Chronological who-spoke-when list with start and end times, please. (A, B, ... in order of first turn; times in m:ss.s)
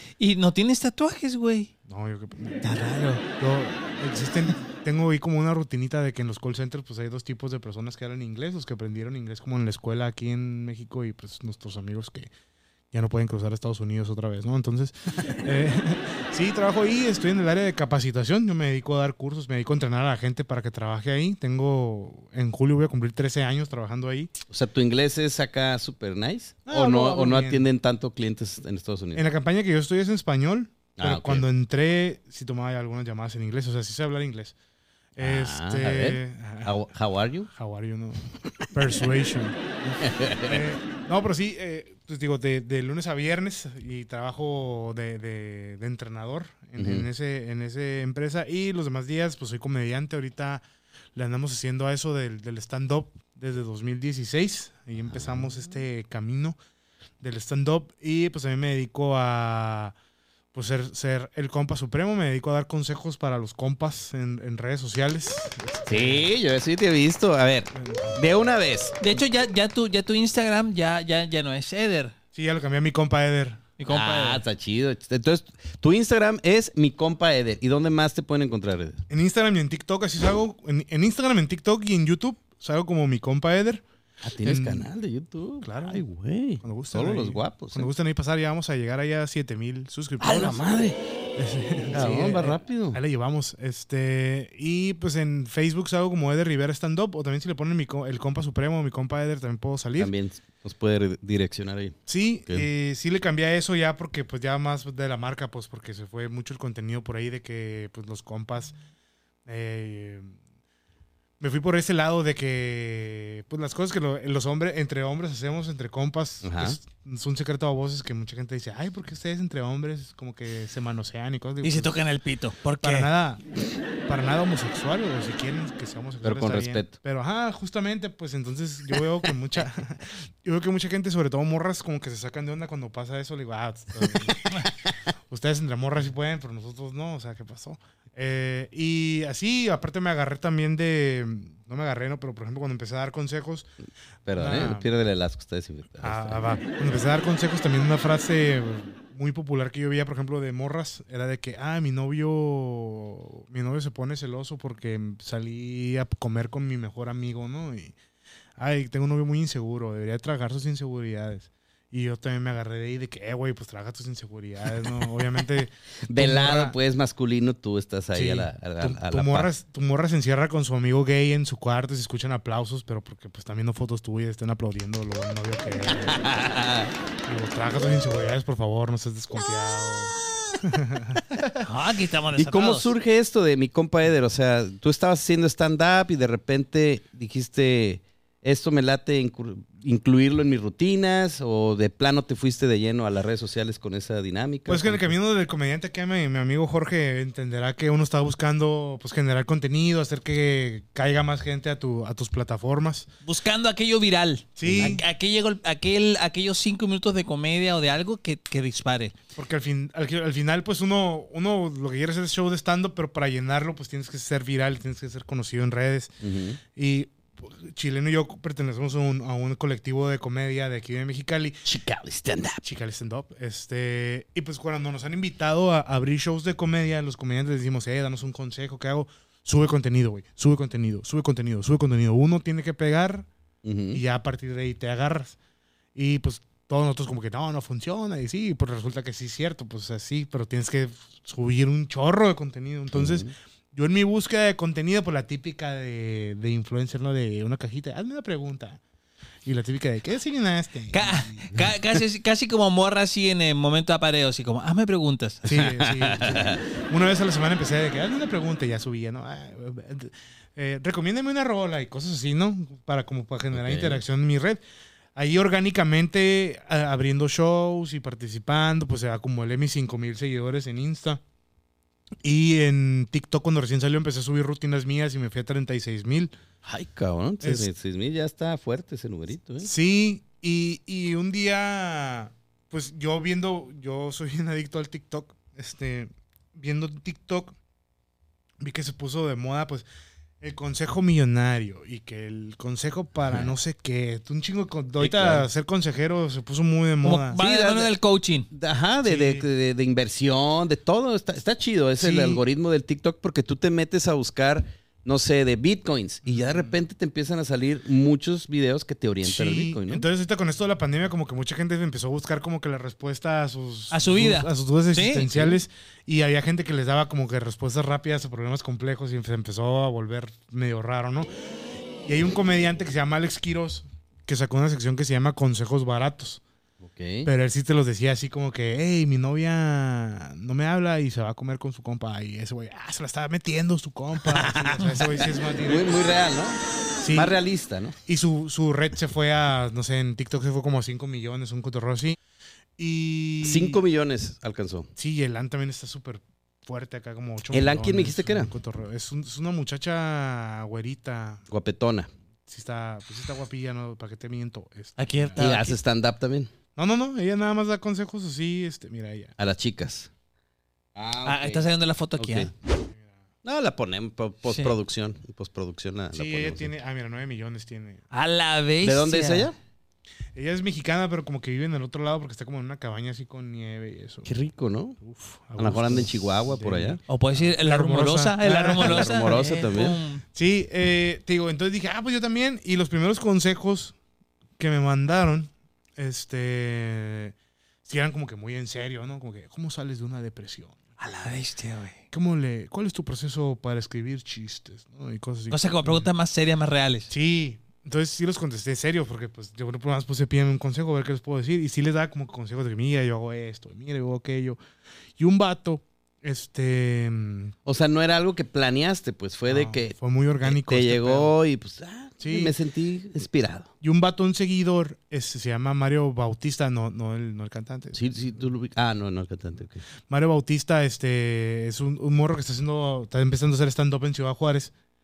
0:00.2-0:01.7 A
0:01.9-0:02.6 B
0:02.6-0:03.2 A
0:03.4-0:12.3 B
0:12.9-0:24.3 B
0:24.5-0:29.2 C
0:26.7-0:27.7 B
0:29.1-0:34.6 B
0:31.0-0:31.5 C
0:35.2-0:36.7 B
0:35.2-0:37.5 C
0:37.5-0:50.6 B
0:40.0-0:40.6 C
0:46.8-0:47.1 C
0:51.2-0:56.6 B
0:55.1-0:55.4 C
0:57.2-0:59.9 B
1:00.5-1:06.3 B
1:05.9-1:09.0 C
1:07.8-1:08.1 B
1:09.0-1:12.1 A
1:12.3-1:13.6 B
1:13.8-1:14.4 A
1:13.9-1:19.0 C
1:19.1-1:23.8 B
1:24.2-1:27.9 C
1:24.4-1:24.9 B
1:25.6-1:26.0 B
1:26.6-1:30.6 B
1:30.2-1:31.0 C
1:31.4-1:40.1 B
1:31.9-1:33.0 C
1:40.0-1:42.7 C
1:42.1-1:48.8 B
1:49.5-1:50.4 B
1:51.4-2:01.9 B
1:56.4-1:56.8 C
2:01.6-2:03.1 A
2:02.8-2:03.4 B
2:04.1-2:14.7 B
2:06.2-2:06.9 C
2:14.0-2:14.7 C
2:15.3-2:23.7 B
2:24.3-2:26.5 C
2:24.4-2:24.9 B
2:26.0-2:38.0 B
2:38.6-2:46.8 B
2:44.8-2:45.1 C
2:46.1-2:49.5 C
2:48.1-2:56.2 B
2:55.9-2:56.9 C
2:57.2-3:01.3 B
3:01.6-3:02.9 A
3:02.4-3:15.1 C
3:14.7-3:23.1 B
3:23.2-3:29.1 A
3:24.6-3:25.0 B
3:24.6-3:25.0 C
3:29.4-3:36.2 B
3:36.2-3:36.6 C
3:36.8-3:41.7 B
3:41.6-3:42.6 C
3:42.6-3:53.3 B
3:53.6-3:54.0 C
3:53.9-3:55.4 B
3:56.0-4:08.8 B
4:02.9-4:03.3 C
4:09.4-4:11.5 B
4:10.9-4:15.4 A
4:15.4-4:24.6 B
4:15.5-4:16.6 C
4:23.5-4:24.0 C
4:25.2-4:31.2 B
4:32.2-4:36.3 B
4:36.6-4:39.7 C
4:37.4-4:37.7 B
4:39.6-4:47.6 B
4:48.6-4:49.9 B
4:50.4-4:57.4 B
4:53.3-4:53.5 C
4:55.0-4:55.5 C
4:57.0-4:58.5 A
4:57.4-4:57.9 C
4:58.5-5:10.1 C
4:59.0-4:59.5 B
5:02.0-5:02.4 B
5:06.2-5:06.7 B
5:09.2-5:21.3 B
5:13.9-5:15.3 A
5:22.0-5:26.4 B
5:26.8-5:27.3 C
5:27.2-5:36.2 B
5:34.2-5:38.0 C
5:37.0-5:37.4 B
5:38.0-5:42.2 B
5:42.8-5:43.8 B
5:43.4-5:44.9 C
5:45.0-5:51.4 B
5:47.5-5:48.5 C
5:51.5-5:52.1 C
5:52.5-5:55.5 B
5:55.0-5:55.8 A
5:55.4-5:56.5 C
5:56.8-5:59.4 B
5:59.4-6:00.1 C
6:01.0-6:01.7 C
6:01.2-6:02.5 A
6:02.2-6:02.5 C
6:03.4-6:06.7 C
6:04.5-6:04.7 A
6:06.1-6:08.0 B
6:08.1-6:09.5 A
6:08.8-6:09.6 C
6:10.4-6:14.3 B
6:14.2-6:15.0 C
6:15.0-6:19.3 B
6:15.6-6:17.0 C
6:17.1-6:20.2 A
6:18.8-6:20.0 C
6:20.3-6:24.0 B
6:24.6-6:30.8 B
6:31.0-6:32.0 A
6:32.1-6:36.1 B
6:35.5-6:37.1 A
6:37.1-6:44.6 B
6:45.2-6:47.6 B
6:47.7-6:53.7 C
6:49.5-6:51.3 B
6:52.2-6:52.5 B
6:53.8-6:58.0 B
6:57.9-6:59.8 C
7:00.1-7:04.7 B